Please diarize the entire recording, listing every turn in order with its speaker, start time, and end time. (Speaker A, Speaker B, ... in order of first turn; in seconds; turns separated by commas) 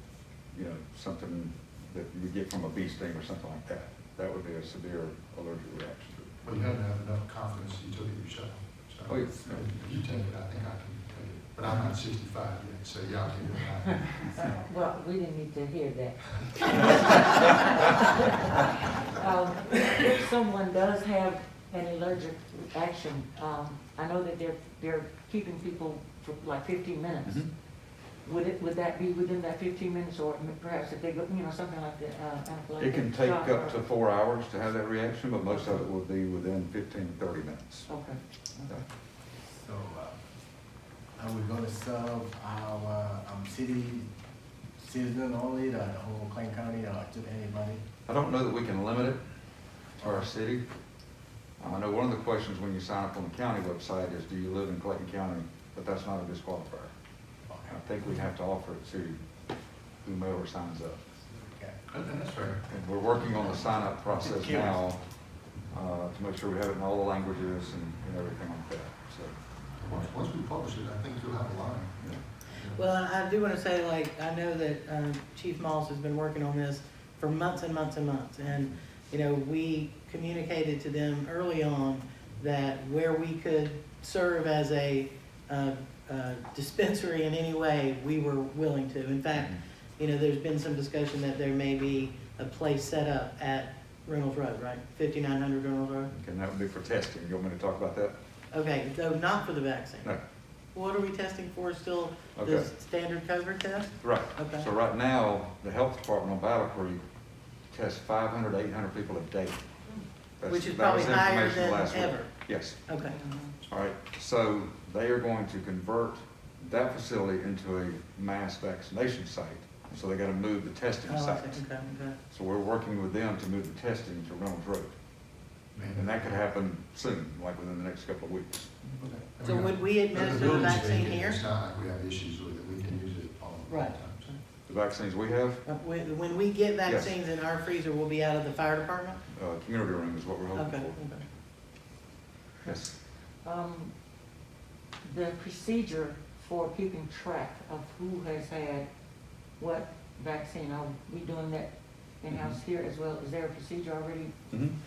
Speaker A: 0.5-6.4, Speaker B: 6.4-14.3, Speaker A: 9.1-9.7, Speaker C: 14.1-27.5, Speaker C: 28.2-33.8, Speaker A: 32.8-37.9, Speaker C: 35.5-35.8, Speaker C: 37.9-38.7, Speaker D: 39.6-40.2, Speaker D: 41.2-44.1, Speaker D: 44.8-47.8, Speaker A: 48.1-49.2, Speaker A: 50.0-50.7, Speaker A: 51.6-56.9, Speaker D: 57.5-57.8, Speaker A: 57.7-59.2, Speaker A: 60.0-61.0, Speaker D: 61.3-61.8, Speaker B: 61.9-62.7, Speaker A: 62.7-65.0, Speaker D: 64.4-64.7, Speaker A: 65.7-69.3, Speaker B: 69.8-72.8, Speaker E: 72.7-96.1, Speaker A: 96.1-98.2, Speaker E: 98.5-100.1, Speaker E: 100.7-104.7, Speaker A: 102.4-102.7, Speaker A: 104.0-107.0, Speaker A: 107.7-109.6, Speaker A: 110.4-112.8, Speaker E: 110.5-112.3, Speaker E: 112.9-113.2, Speaker C: 113.0-113.5, Speaker A: 113.6-121.6, Speaker E: 121.1-122.2, Speaker A: 122.3-124.9, Speaker B: 125.8-126.3, Speaker A: 125.9-128.8, Speaker B: 129.0-134.3, Speaker E: 129.4-131.4, Speaker E: 133.7-134.4, Speaker A: 134.7-135.7, Speaker E: 135.7-139.2, Speaker A: 136.9-137.2, Speaker A: 139.3-141.2, Speaker E: 140.6-141.2, Speaker A: 142.6-143.0, Speaker C: 143.4-143.9, Speaker C: 145.0-148.9, Speaker C: 149.6-154.4, Speaker A: 152.3-152.6, Speaker A: 154.5-154.8